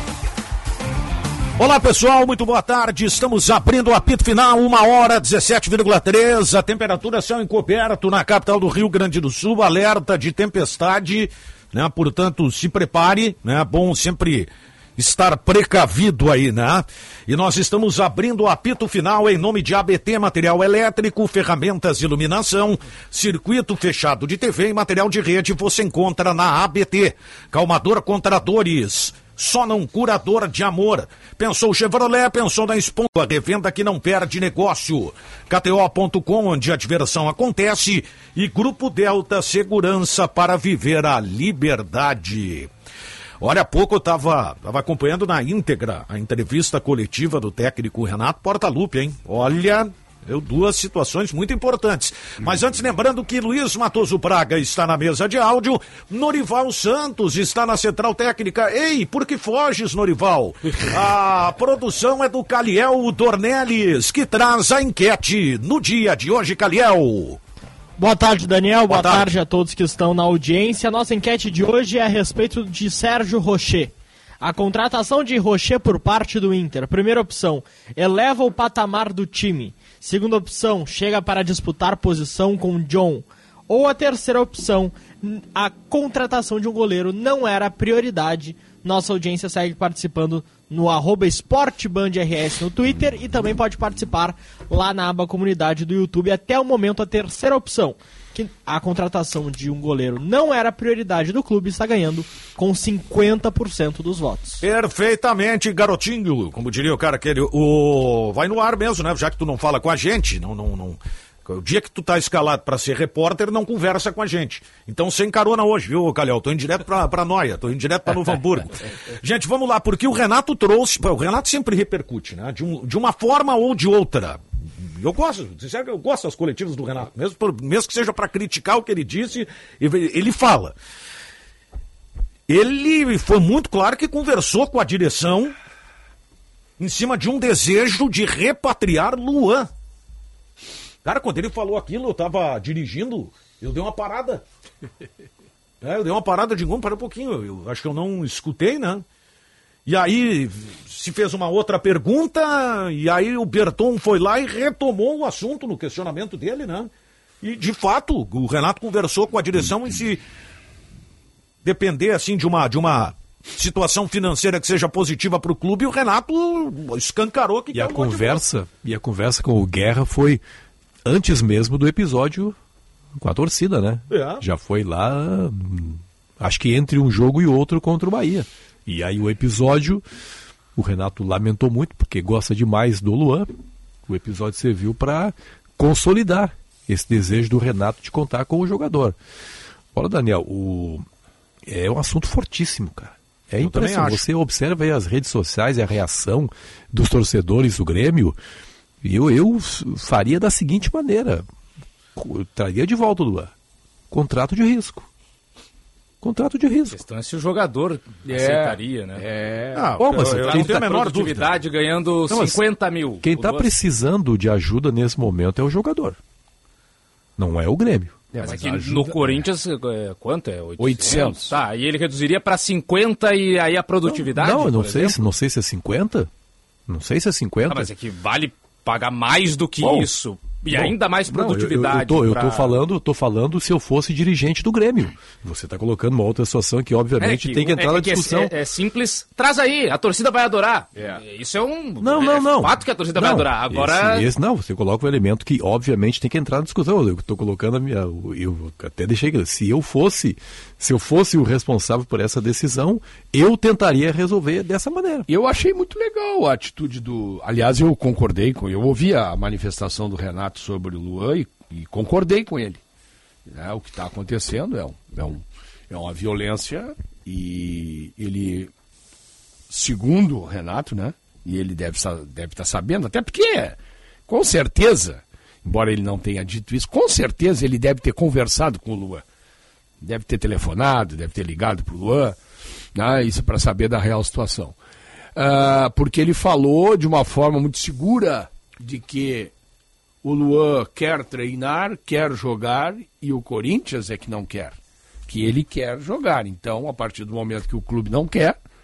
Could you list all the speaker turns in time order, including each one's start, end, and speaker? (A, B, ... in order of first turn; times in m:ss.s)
0:01.6-0:42.7 A
0:43.4-1:07.4 A
1:08.0-1:44.6 B
1:08.9-1:09.3 A
1:44.6-2:10.8 A
2:12.5-2:15.5 A
2:16.8-2:19.7 A
2:21.0-2:24.4 A
2:25.8-2:29.0 A
2:29.8-2:36.9 A
2:37.4-2:40.2 A
2:41.6-2:48.4 A
2:47.7-2:50.4 C
2:51.1-2:52.6 C
2:53.2-3:00.0 C
2:54.1-2:54.4 A
3:00.8-3:03.5 C
3:04.1-3:09.2 C
3:09.9-3:11.1 C
3:11.7-3:18.4 C
3:13.6-3:14.2 A
3:19.0-3:21.4 C
3:22.2-3:23.5 C
3:24.1-3:25.1 C
3:26.2-3:27.0 C
3:26.9-3:29.2 D
3:28.2-3:30.0 E
3:29.8-3:31.5 A
3:30.0-3:30.9 C
3:30.2-3:33.7 D
3:32.3-3:32.6 C
3:33.2-3:36.2 C
3:37.4-3:38.3 C
3:38.3-3:39.2 E
3:38.4-3:45.2 D
3:40.8-3:41.5 E
3:44.1-3:46.3 C
3:46.9-3:47.9 C
3:47.7-3:52.8 D
3:49.8-3:50.1 C
3:50.7-3:58.5 C
3:57.2-4:04.3 D
4:02.0-4:15.3 C
4:15.3-4:22.8 E
4:23.4-4:28.7 E
4:29.7-4:39.2 E
4:40.0-4:42.4 E
4:42.9-4:44.8 E
4:45.4-4:49.5 E
4:50.2-4:58.6 E